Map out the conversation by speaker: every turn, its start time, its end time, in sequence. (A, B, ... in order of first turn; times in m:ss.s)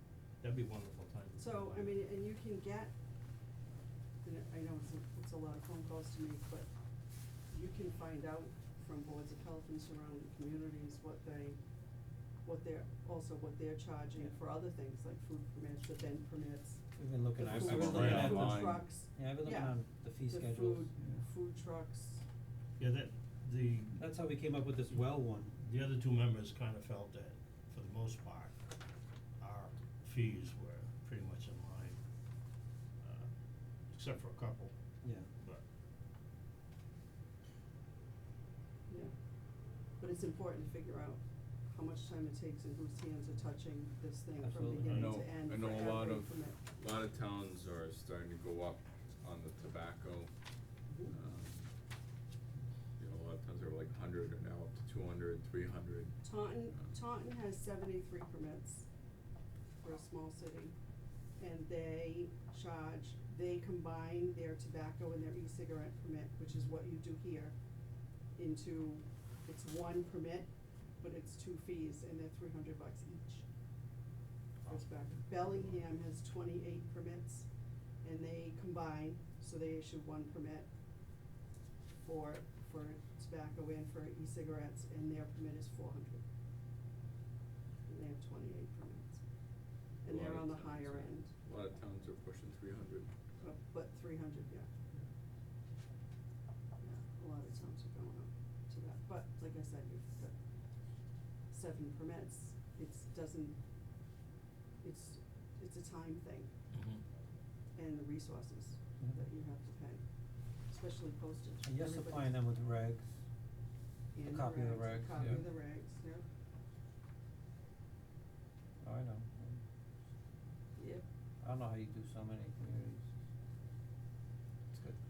0:00.4-0:02.0 A
0:01.4-0:02.9 B
0:04.2-0:06.7 B
0:07.5-0:11.6 B
0:12.4-0:22.2 B
0:17.0-0:20.9 C
0:17.6-0:19.0 D
0:17.9-0:18.4 A
0:21.0-0:21.2 D
0:22.8-0:24.0 A
0:24.0-0:25.6 C
0:25.6-0:28.6 A
0:29.4-0:32.0 A
0:33.0-0:33.3 A
0:33.9-0:34.8 A
0:35.0-0:35.3 C
0:35.4-0:35.6 A
0:40.0-0:46.6 B
0:44.4-0:44.8 C
0:44.7-0:45.2 A
0:44.8-0:51.7 D
0:50.9-0:51.2 B
0:53.0-0:56.9 D
0:56.2-0:58.9 B
0:59.8-1:00.8 B
1:01.4-1:07.6 B
1:08.4-1:13.5 B
1:14.7-1:17.5 B
1:18.0-1:20.7 B
1:22.0-1:26.2 B
1:27.9-1:29.2 B
1:30.0-1:31.3 B
1:30.0-1:33.1 D
1:33.4-1:34.7 B
1:36.8-1:40.4 B
1:41.5-1:43.6 B
1:44.8-1:46.5 B
1:46.7-1:47.0 A
1:47.8-1:50.0 B
1:50.6-1:52.3 B
1:51.6-1:53.1 C
1:54.1-1:56.2 B
1:54.2-1:55.4 C
1:58.8-1:59.6 C
2:00.8-2:01.0 B
2:01.4-2:03.0 C
2:04.7-2:05.0 C